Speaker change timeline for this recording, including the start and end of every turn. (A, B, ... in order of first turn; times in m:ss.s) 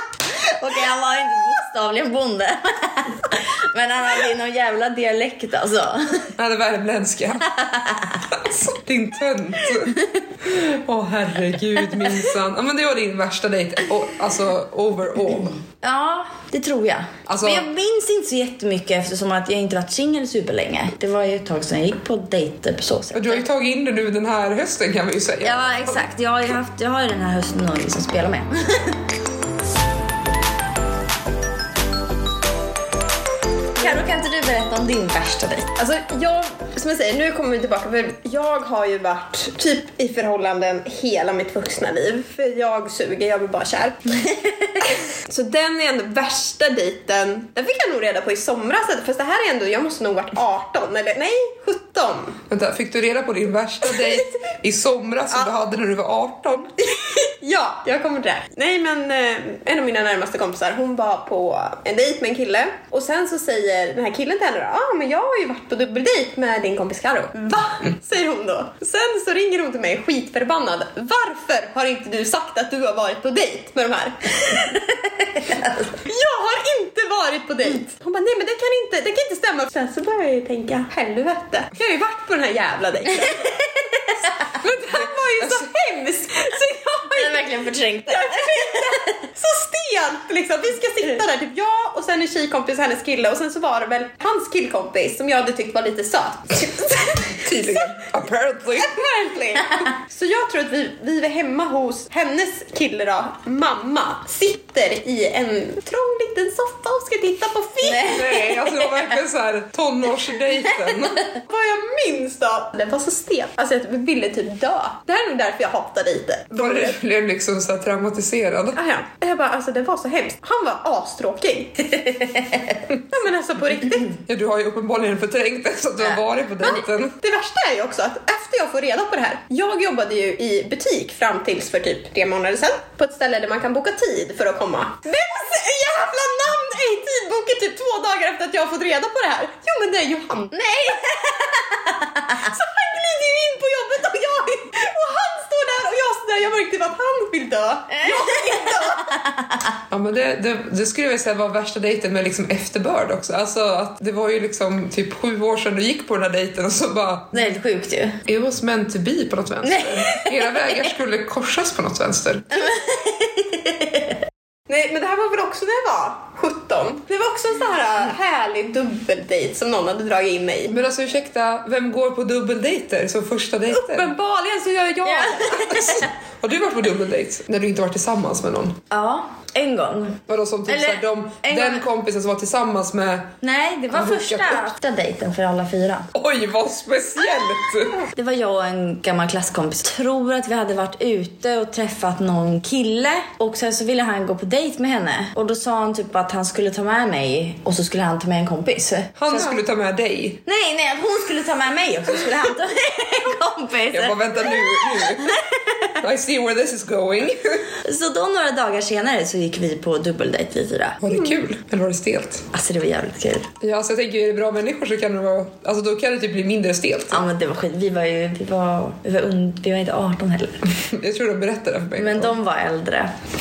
0:00.3-0:06.3 A
0:06.4-0:07.5 B
0:07.5-0:08.2 A
0:08.3-0:15.6 B
0:15.8-0:23.4 A
0:17.3-0:17.7 B
0:23.1-0:26.1 B
0:25.4-0:29.0 A
0:33.8-0:35.7 A
0:35.8-0:44.1 C
0:44.1-0:44.9 A
0:44.9-0:52.4 C
0:52.5-0:56.7 B
0:53.9-0:54.2 C
0:56.8-1:14.8 C
1:14.9-1:15.8 A
1:15.9-1:23.8 C
1:24.4-1:27.5 C
1:25.4-1:25.6 B
1:27.1-1:29.2 A
1:28.1-1:38.0 C
1:37.4-1:39.0 B
1:38.8-1:48.3 C
1:47.8-1:49.1 A
1:48.0-1:51.3 B
1:51.4-1:57.0 C
1:56.5-1:58.8 B
1:58.7-2:02.1 C
2:02.0-2:02.7 A
2:03.1-2:04.1 C
2:04.2-2:07.1 B
2:06.6-2:21.4 C
2:20.9-2:21.4 A
2:21.9-2:22.3 A
2:22.3-2:29.1 C
2:27.9-2:29.7 A
2:29.9-2:37.5 B
2:37.3-2:38.2 A
2:38.2-2:42.6 B
2:39.6-2:40.8 A
2:42.5-2:44.2 A
2:44.7-2:50.8 C
2:50.7-2:54.1 B
2:53.7-2:55.9 C
2:55.0-2:56.1 A
2:55.5-2:58.8 B
2:58.9-3:01.8 A
3:00.3-3:03.3 B
3:03.4-3:06.1 A
3:03.9-3:04.7 B
3:06.1-3:08.0 B
3:08.1-3:19.5 A
3:19.2-3:20.4 B
3:20.4-3:25.9 A
3:23.9-3:25.4 B
3:26.0-3:27.7 B
3:27.8-3:31.0 A
3:31.0-3:32.5 B
3:32.5-3:33.5 A
3:33.6-3:37.2 B
3:37.1-3:40.6 A
3:40.7-3:42.4 B
3:42.0-3:43.1 A